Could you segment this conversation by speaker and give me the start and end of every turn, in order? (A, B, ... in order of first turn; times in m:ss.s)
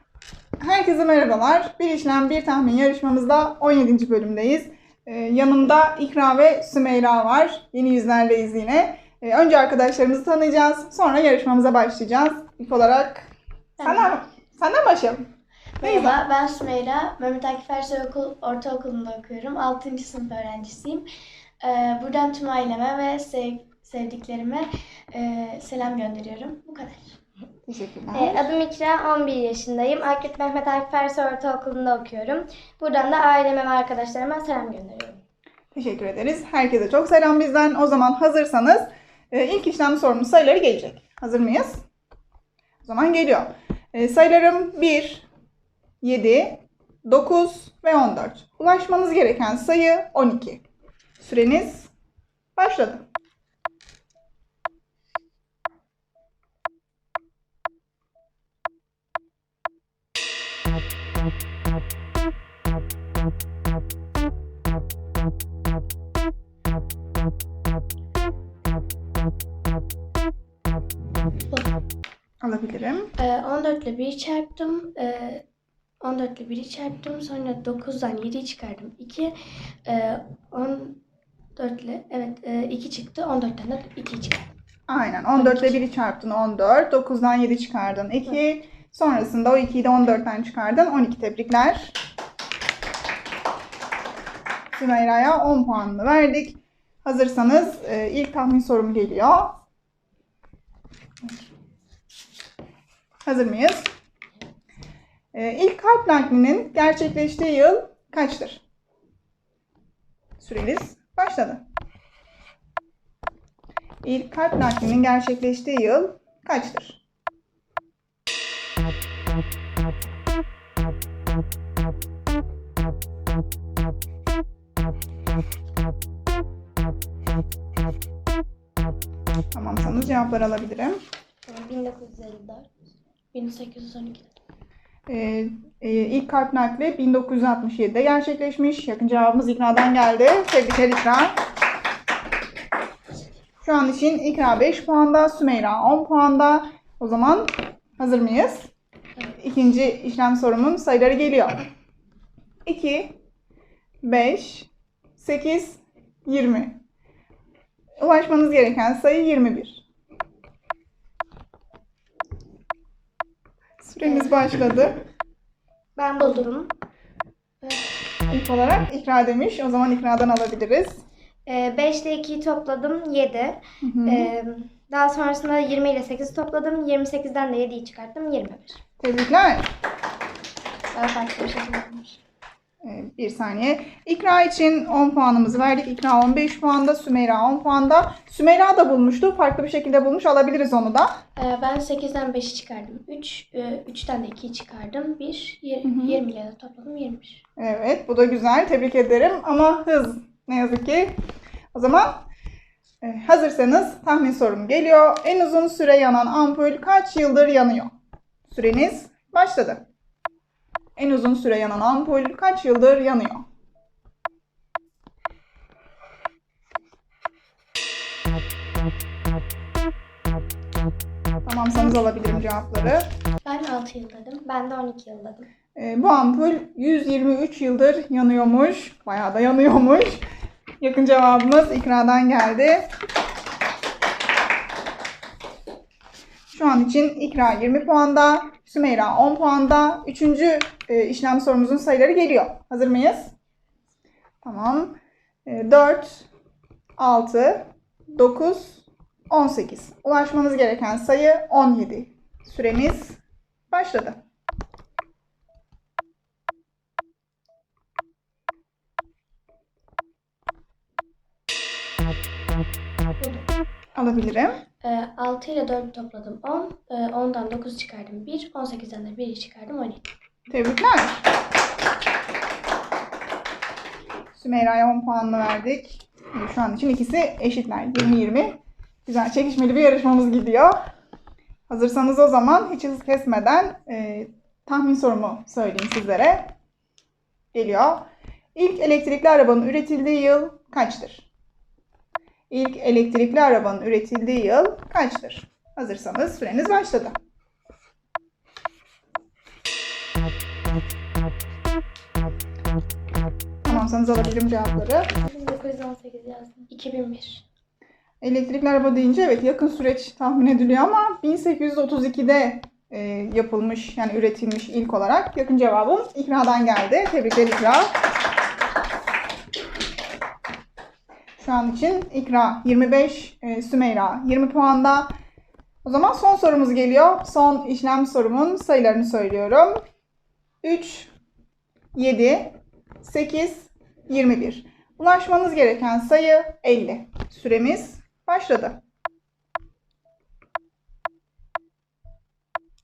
0:00.6-0:13.3 A
0:13.8-0:14.1 B
0:13.8-0:15.3 A
0:15.8-0:21.0 B
0:15.8-0:16.2 A
0:21.6-0:27.2 B
0:27.7-0:28.4 A
0:28.1-0:35.2 C
0:35.7-0:41.8 A
0:42.8-0:45.2 A
0:46.0-0:50.6 A
0:51.2-0:51.9 A
0:52.6-0:53.0 A
1:12.4-1:13.1 A
1:13.2-1:15.4 B
1:16.0-1:19.3 B
1:19.8-1:21.0 B
1:21.6-1:24.5 B
1:24.9-1:31.9 A
1:25.3-1:25.8 B
1:34.7-1:39.6 A
1:43.2-1:43.9 A
1:45.3-1:48.6 A
1:50.4-1:51.6 A
1:54.0-1:57.0 A
2:09.5-2:11.0 A
2:11.5-2:12.7 C
2:13.3-2:14.4 B
2:15.1-2:21.4 A
2:23.6-2:28.7 A
2:29.4-2:31.6 A
2:32.6-2:33.2 A
2:34.0-2:36.8 A
2:38.0-2:39.8 A
2:43.8-2:45.0 A
2:44.0-2:44.4 C
2:46.0-2:46.7 C
2:46.2-2:46.5 B
2:47.6-2:47.9 B
2:48.3-2:51.0 A
2:51.5-2:58.8 C
2:53.8-2:54.3 A
2:59.0-2:59.7 A
3:00.9-3:02.2 C
3:02.8-3:11.1 A
3:11.4-3:17.4 B
3:15.8-3:16.2 A
3:17.6-3:21.2 A
3:21.7-3:22.2 A
3:23.0-3:27.9 A
3:28.5-3:29.8 A
3:31.0-3:33.4 A
3:41.4-3:43.1 A
3:43.4-3:44.4 B
3:44.4-3:45.5 C
3:45.8-3:50.2 A
3:50.8-3:52.9 A
3:56.5-4:03.3 A
4:04.4-4:06.3 A
4:07.0-4:13.2 A
4:13.7-4:14.2 A
4:23.2-4:23.4 B
4:23.9-4:24.6 A
4:24.8-4:30.0 B
4:30.5-4:31.2 A
4:34.3-4:40.8 A
4:41.7-4:46.5 A
4:47.5-4:51.3 A
4:52.5-4:57.1 A
5:03.6-5:05.1 A
5:05.1-5:06.6 C
5:06.7-5:07.4 B
5:08.2-5:17.9 A
5:21.4-5:25.1 A
5:25.8-5:29.8 A
5:30.6-5:31.1 A
5:31.9-5:38.8 A